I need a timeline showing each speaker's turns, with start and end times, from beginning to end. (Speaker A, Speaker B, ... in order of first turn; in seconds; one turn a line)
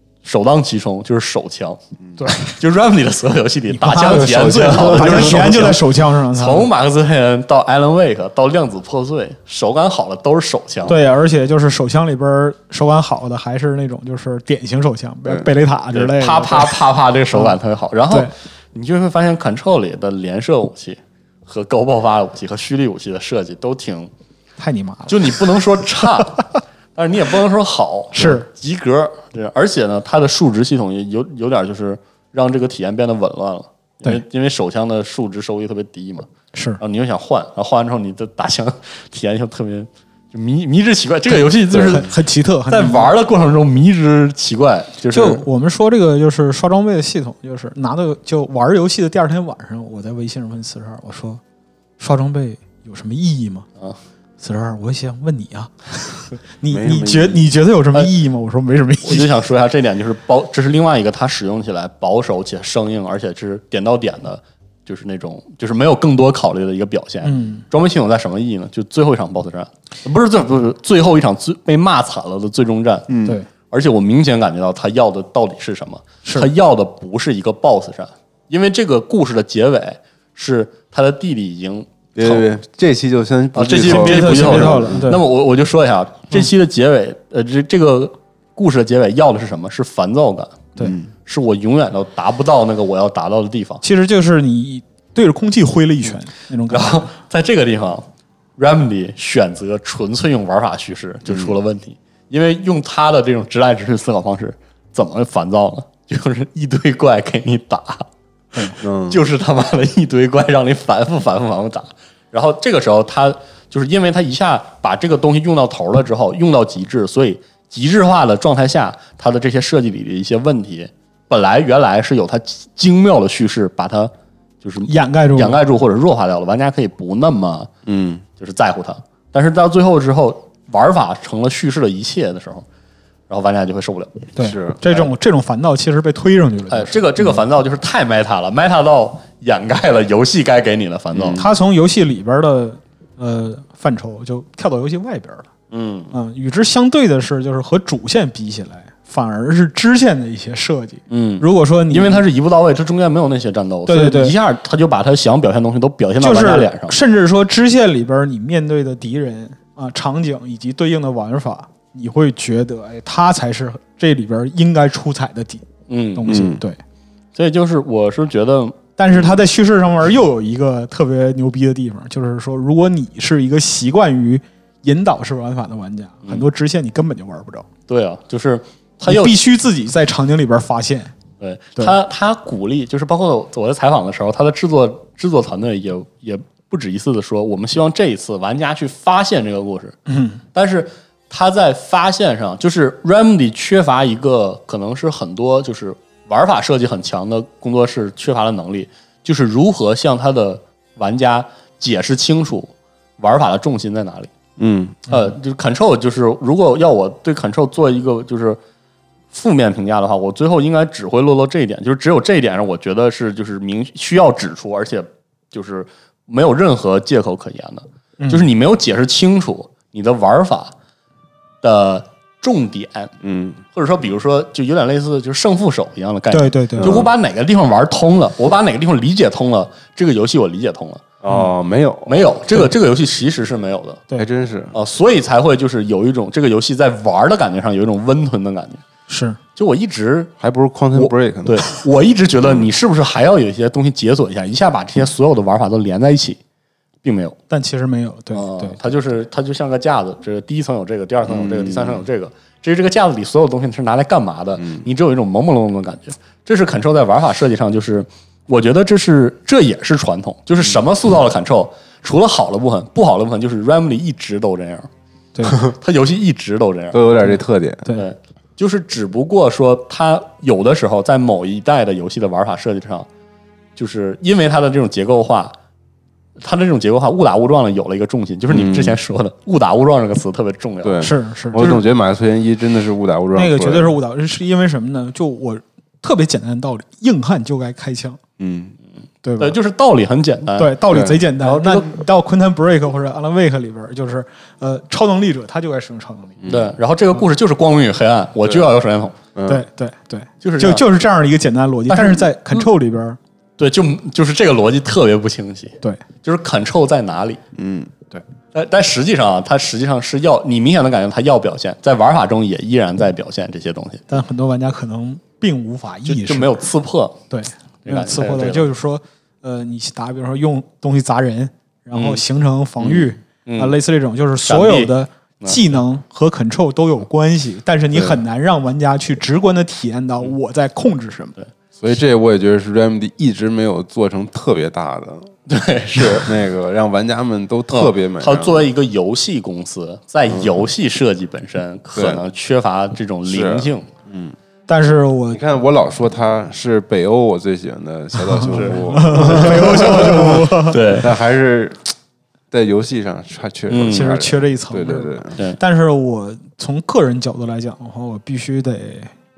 Speaker A: 0.2-11.0
Speaker B: 3.7-6.7
Speaker C: 4.0-5.8
Speaker B: 10.9-16.8
Speaker A: 15.9-24.1
Speaker B: 24.6-25.4
Speaker A: 25.1-36.3
Speaker B: 28.1-28.4
Speaker B: 36.5-36.8
Speaker A: 36.8-42.1
Speaker B: 41.4-43.1
Speaker C: 41.7-42.0
Speaker A: 42.7-45.4
Speaker B: 45.1-51.4
Speaker B: 52.0-53.6
Speaker B: 54.4-59.3
Speaker C: 56.7-57.5
Speaker A: 59.0-73.1
Speaker B: 67.2-67.6
Speaker C: 73.1-73.4
Speaker A: 73.7-82.5
Speaker B: 76.2-76.5
Speaker C: 82.2-85.1
Speaker A: 83.5-93.8
Speaker B: 83.8-85.2
Speaker C: 90.8-91.1
Speaker B: 93.8-97.1
Speaker A: 96.7-98.0
Speaker A: 98.6-108.0
Speaker C: 101.3-101.5
Speaker A: 108.6-127.7
Speaker C: 108.8-109.2
Speaker B: 124.9-125.6
Speaker C: 127.8-128.2
Speaker A: 128.4-132.7
Speaker A: 133.3-134.3
Speaker B: 134.3-137.4
Speaker C: 134.4-134.8
Speaker A: 136.7-141.4
Speaker C: 141.1-141.5
Speaker B: 141.4-145.5
Speaker A: 145.7-146.1
Speaker B: 146.1-152.2
Speaker A: 151.1-157.0
Speaker B: 153.9-154.3
Speaker B: 156.2-166.8
Speaker A: 165.9-166.4
Speaker C: 166.3-166.6
Speaker A: 167.3-169.2
Speaker B: 169.0-177.7
Speaker A: 177.9-179.4
Speaker B: 179.1-181.1
Speaker A: 181.4-190.0
Speaker B: 190.1-190.4
Speaker A: 190.5-204.3
Speaker C: 204.6-205.1
Speaker A: 205.1-208.6
Speaker A: 209.3-220.7
Speaker B: 218.2-218.4
Speaker A: 221.6-223.1
Speaker C: 223.2-223.6
Speaker A: 223.7-231.2
Speaker B: 226.3-227.0
Speaker C: 226.8-227.1
Speaker C: 231.2-232.3
Speaker A: 232.1-234.0
Speaker C: 234.2-234.7
Speaker A: 234.7-238.8
Speaker B: 239.1-239.4
Speaker A: 239.6-240.3
Speaker C: 240.4-241.7
Speaker A: 240.9-246.4
Speaker A: 247.0-247.4
Speaker B: 247.5-248.8
Speaker A: 248.3-264.9
Speaker C: 251.2-252.0
Speaker C: 254.6-254.8
Speaker B: 265.3-265.6
Speaker A: 265.5-267.2
Speaker C: 266.9-267.9
Speaker A: 267.9-273.1
Speaker A: 273.8-275.5
Speaker A: 276.4-281.8
Speaker C: 278.5-279.0
Speaker C: 280.8-283.9
Speaker B: 281.0-281.8
Speaker B: 283.3-288.2
Speaker C: 288.4-288.8
Speaker B: 289.2-289.6
Speaker A: 289.4-290.8
Speaker B: 290.6-296.4
Speaker C: 290.9-291.2
Speaker A: 291.4-291.9
Speaker C: 296.4-296.7
Speaker A: 296.4-299.2
Speaker C: 298.4-298.7
Speaker C: 299.3-299.6
Speaker B: 299.5-303.2
Speaker A: 300.4-300.8
Speaker A: 301.9-302.6
Speaker A: 303.6-307.4
Speaker C: 307.5-307.9
Speaker A: 308.5-314.1
Speaker B: 314.1-316.5
Speaker A: 316.1-317.2
Speaker B: 317.3-331.4
Speaker A: 317.8-318.7
Speaker A: 321.9-322.2
Speaker A: 322.8-323.8
Speaker A: 324.4-325.7
Speaker C: 327.9-328.2
Speaker C: 331.8-335.3
Speaker A: 335.5-336.3
Speaker C: 336.0-338.7
Speaker A: 337.7-343.9
Speaker C: 340.3-340.6
Speaker C: 341.9-342.2
Speaker C: 343.2-344.4
Speaker B: 344.7-345.4
Speaker C: 345.3-351.9
Speaker B: 348.2-350.8
Speaker A: 348.5-351.1
Speaker C: 352.5-355.4
Speaker A: 353.7-354.1
Speaker B: 353.9-359.1